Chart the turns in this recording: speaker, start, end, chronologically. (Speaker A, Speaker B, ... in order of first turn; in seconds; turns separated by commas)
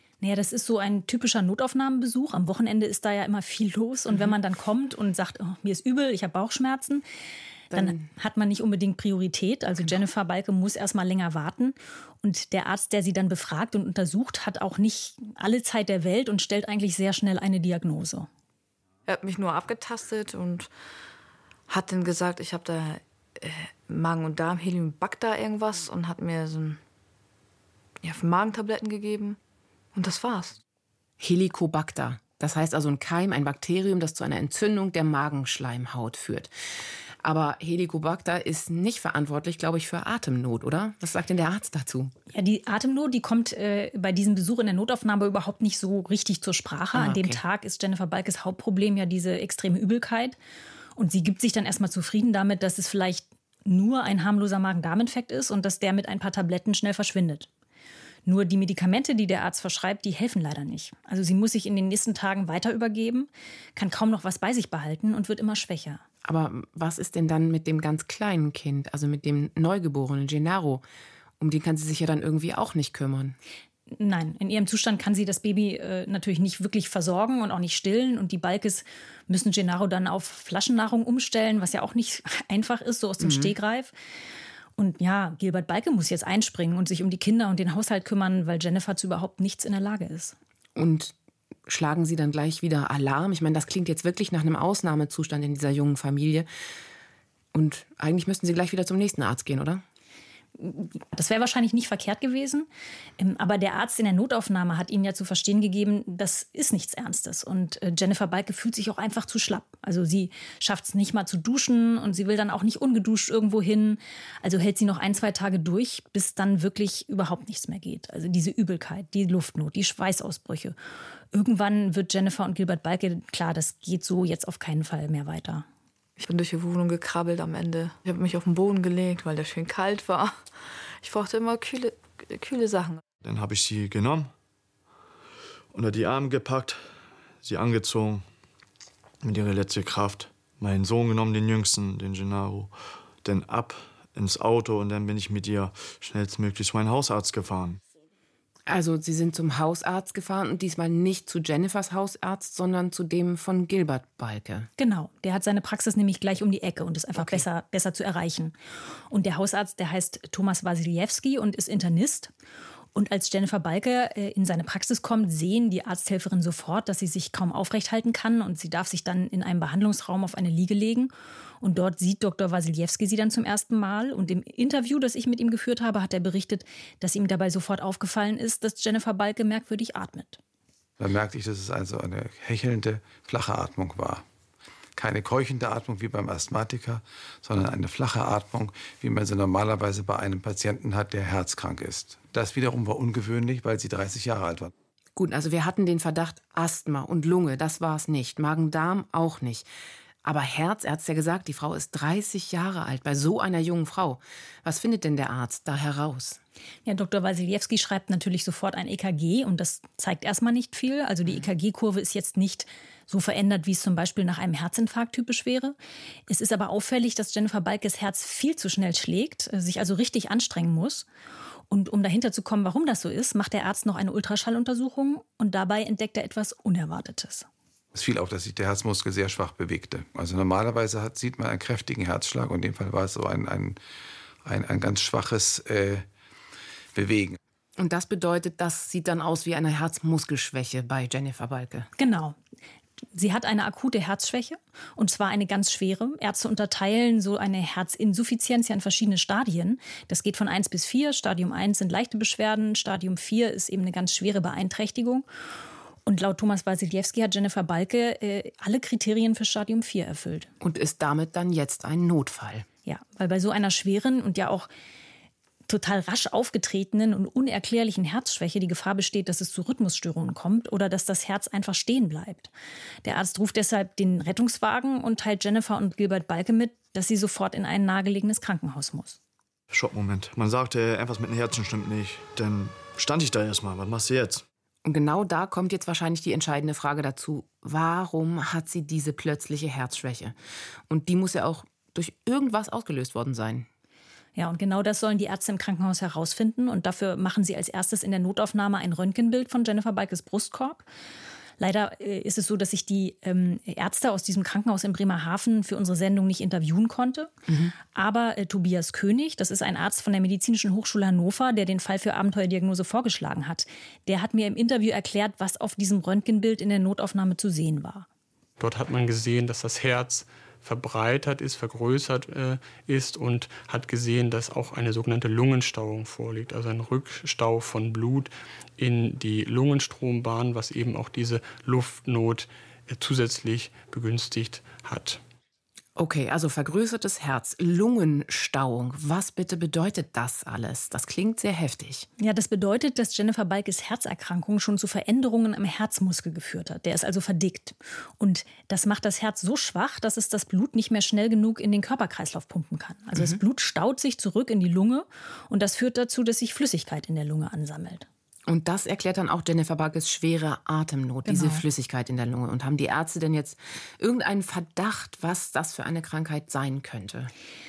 Speaker A: 0.2-7.0, Speaker B: 4.1-4.3, Speaker B: 7.7-8.1, Speaker A: 7.7-18.3, Speaker C: 19.1-20.7, Speaker C: 21.7-26.8, Speaker C: 28.0-29.4, Speaker C: 29.9-30.6, Speaker B: 31.2-36.5, Speaker B: 37.2-42.1, Speaker A: 42.3-50.4, Speaker B: 46.9-47.4, Speaker A: 51.0-57.5, Speaker A: 58.2-66.0, Speaker B: 66.2-70.8, Speaker B: 71.4-73.4, Speaker A: 73.9-83.9, Speaker B: 83.2-83.5, Speaker A: 84.8-90.3, Speaker B: 90.8-91.1, Speaker B: 91.7-96.5, Speaker B: 97.5-99.8, Speaker A: 100.6-120.8, Speaker A: 121.3-125.7, Speaker C: 126.2-130.5, Speaker C: 131.0-133.0, Speaker D: 133.2-134.3, Speaker D: 135.7-138.2, Speaker D: 139.2-142.7, Speaker D: 143.2-147.8, Speaker B: 148.7-154.7, Speaker A: 154.8-158.5, Speaker B: 157.2-157.4, Speaker A: 159.1-162.3, Speaker A: 162.9-180.4, Speaker E: 181.0-184.2, Speaker E: 184.9-194.7, Speaker B: 195.2-199.7, Speaker B: 200.2-206.4, Speaker A: 206.8-215.7, Speaker A: 216.3-221.1, Speaker A: 221.7-227.5, Speaker E: 227.9-233.8, Speaker E: 234.4-236.1, Speaker E: 236.9-237.4, Speaker B: 237.8-241.9, Speaker A: 242.0-242.4, Speaker A: 243.1-255.2, Speaker A: 256.1-260.5, Speaker B: 260.6-262.6, Speaker A: 262.9-264.7, Speaker A: 265.7-272.5, Speaker A: 273.0-279.2, Speaker D: 279.7-284.4, Speaker B: 284.8-290.4, Speaker B: 290.9-293.7, Speaker A: 294.4-300.8, Speaker A: 301.6-307.3, Speaker B: 307.5-307.7, Speaker A: 307.9-318.1, Speaker F: 318.6-335.2, Speaker B: 335.9-342.1, Speaker A: 342.2-358.1, Speaker B: 353.1-353.4, Speaker B: 358.5-367.3, Speaker A: 361.2-361.6